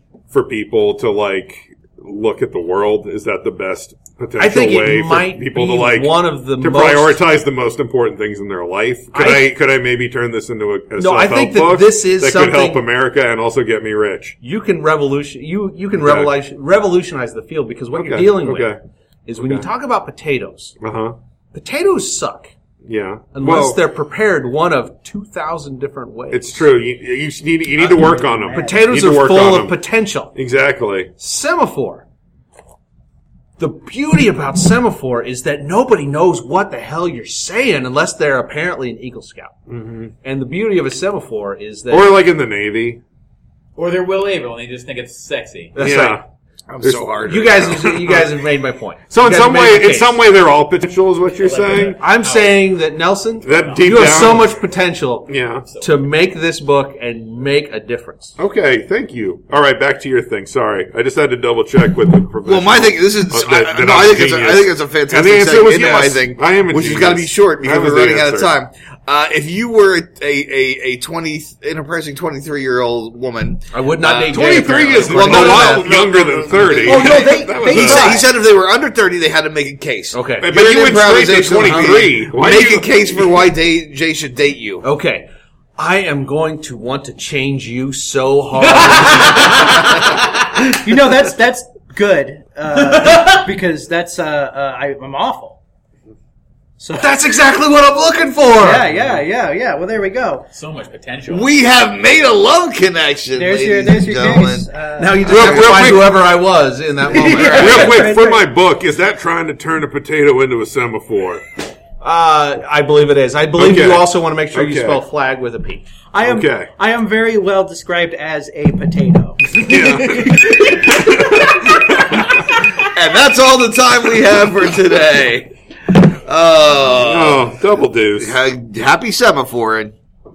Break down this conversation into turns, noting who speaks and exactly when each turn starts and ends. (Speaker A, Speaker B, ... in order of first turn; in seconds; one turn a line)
Speaker A: 0.3-14.4
Speaker B: 4.4-7.2
Speaker B: 9.1-9.5
Speaker B: 11.0-12.8
Speaker B: 14.4-20.8
Speaker A: 15.9-16.3
Speaker A: 17.9-18.8
Speaker A: 19.4-19.7
Speaker A: 20.8-21.2
Speaker B: 21.5-22.5
Speaker A: 22.9-23.8
Speaker B: 23.3-26.6
Speaker A: 26.3-29.8
Speaker B: 27.8-30.3
Speaker C: 27.8-28.9
Speaker A: 30.3-31.1
Speaker B: 31.2-32.0
Speaker B: 33.6-39.6
Speaker A: 39.7-40.1
Speaker B: 40.2-42.2
Speaker A: 41.9-43.0
Speaker D: 43.8-45.7
Speaker B: 45.7-46.2
Speaker A: 45.8-46.2
Speaker E: 46.7-48.0
Speaker A: 46.8-48.4
Speaker B: 47.2-50.2
Speaker A: 49.1-52.0
Speaker D: 51.4-52.8
Speaker B: 52.0-58.4
Speaker A: 53.4-54.5
Speaker D: 53.5-54.1
Speaker A: 55.3-55.7
Speaker D: 55.6-56.0
Speaker A: 58.4-68.5
Speaker E: 62.4-84.8
Speaker B: 73.7-76.0
Speaker A: 74.3-78.1
Speaker C: 76.8-78.3
Speaker B: 80.1-80.5
Speaker A: 80.4-83.4
Speaker B: 81.5-82.1
Speaker B: 84.8-90.0
Speaker D: 88.6-90.5
Speaker C: 90.7-95.6
Speaker D: 92.7-93.3
Speaker C: 96.8-97.1
Speaker B: 96.9-98.9
Speaker C: 98.6-100.5
Speaker D: 100.5-101.5
Speaker E: 101.3-104.7
Speaker C: 103.3-105.5
Speaker B: 105.0-108.1
Speaker E: 105.2-106.0
Speaker A: 105.3-106.3
Speaker C: 107.0-108.5
Speaker A: 107.3-111.4
Speaker B: 112.0-115.8
Speaker A: 113.5-115.0
Speaker C: 116.1-121.2
Speaker A: 116.2-116.7
Speaker A: 119.6-122.2
Speaker E: 122.8-127.5
Speaker A: 127.0-128.4
Speaker E: 128.2-129.9